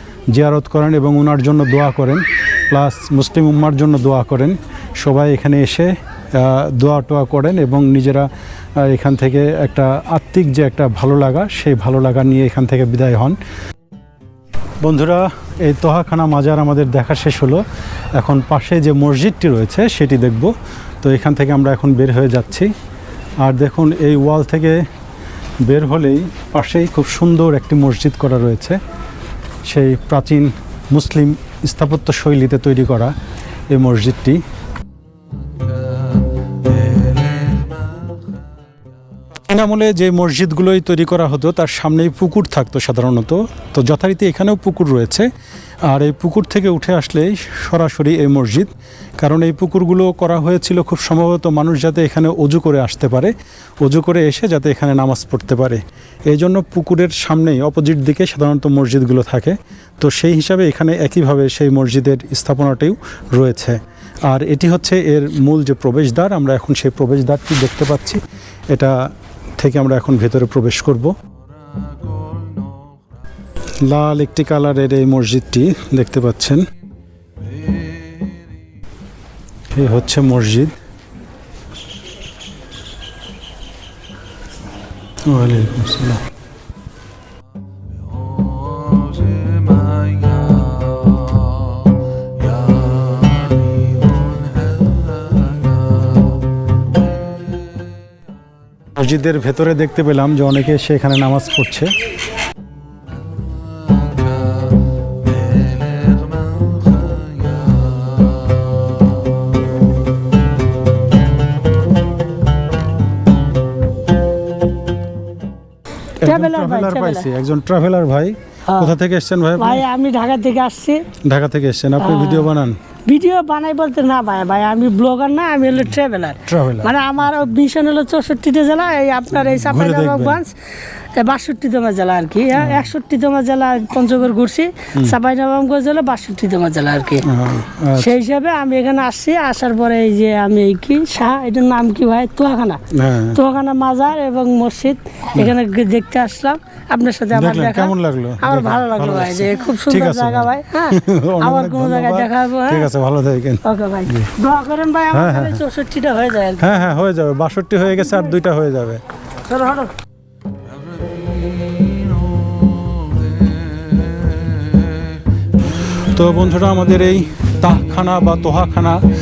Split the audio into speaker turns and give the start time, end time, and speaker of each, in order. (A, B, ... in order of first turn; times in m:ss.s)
0:00.3-0:08.3 A
0:08.8-0:13.4 A
0:14.8-0:17.6 A
0:18.2-0:22.7 A
0:23.4-0:24.8 A
0:25.7-0:28.8 A
0:29.7-0:33.1 A
0:33.7-0:34.4 A
0:39.5-0:45.3 A
0:45.9-1:08.2 A
1:09.6-1:11.1 A
1:13.9-1:16.6 A
1:19.7-1:20.7 A
1:25.3-1:26.2 A
1:39.0-1:41.9 A
1:56.2-1:59.8 A
1:56.2-1:57.3 B
1:58.7-1:58.9 B
1:59.6-2:01.0 B
2:01.2-2:02.8 A
2:02.0-2:02.5 B
2:03.1-2:10.5 B
2:06.5-2:07.0 A
2:09.4-2:10.4 A
2:11.2-2:17.2 B
2:12.6-2:12.9 A
2:17.2-2:18.1 A
2:18.0-2:22.8 B
2:22.9-2:23.4 A
2:23.3-2:32.9 B
2:27.3-2:34.3 A
2:33.6-2:36.7 B
2:35.1-2:35.6 A
2:36.6-2:39.0 A
2:37.8-2:38.3 B
2:39.5-2:39.9 B
2:46.1-2:49.0 A